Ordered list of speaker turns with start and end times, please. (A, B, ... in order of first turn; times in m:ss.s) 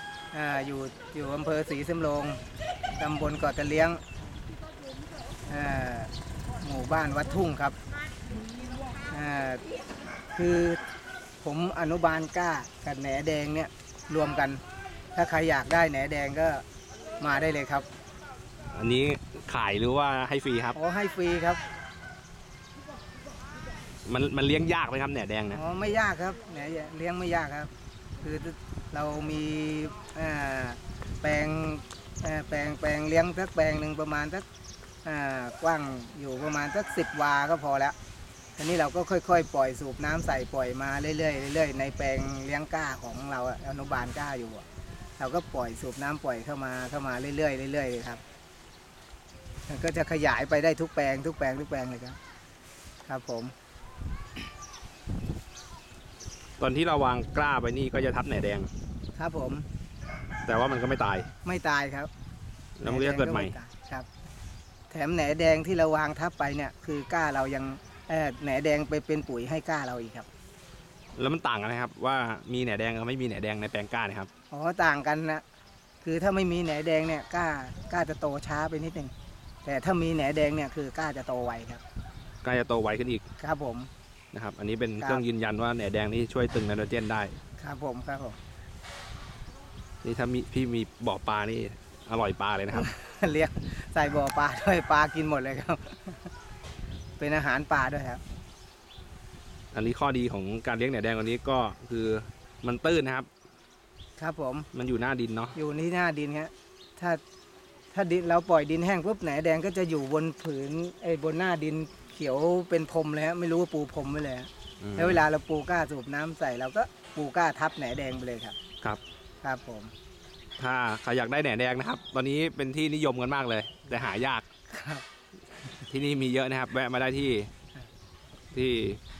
0:00.3-0:02.4 A
0:03.0-0:04.0 A
0:05.5-0:07.8 A
0:09.1-0:09.6 A
0:10.3-0:10.8 A
0:11.4-0:14.6 A
0:15.1-0:16.6 A
0:17.2-0:17.8 A
0:18.7-0:20.8 B
0:20.7-0:21.6 A
0:24.0-0:25.6 B
0:25.5-0:27.7 A
0:28.2-0:34.4 A
0:35.0-0:37.9 A
0:38.6-0:44.6 A
0:45.2-0:48.2 A
0:49.7-0:52.2 A
0:53.0-0:53.5 A
0:56.6-0:58.7 B
0:59.2-0:59.6 A
1:00.4-1:01.3 B
1:01.4-1:02.1 A
1:02.8-1:03.5 B
1:02.8-1:04.0 A
1:04.9-1:10.3 A
1:11.2-1:14.3 B
1:14.5-1:15.4 A
1:16.0-1:19.1 A
1:19.6-1:21.8 A
1:22.4-1:23.2 B
1:23.4-1:23.9 A
1:24.3-1:27.4 B
1:27.6-1:28.4 A
1:30.0-1:32.9 B
1:32.7-1:36.3 A
1:37.2-1:38.2 A
1:39.7-1:43.3 B
1:44.2-1:44.7 A
1:44.7-1:45.6 B
1:45.5-1:47.2 A
1:47.9-1:58.6 A
1:54.8-1:55.2 B
1:59.4-1:59.9 A
2:00.6-2:04.4 B
2:04.7-2:05.0 A
2:05.9-2:07.5 B
2:08.5-2:09.0 B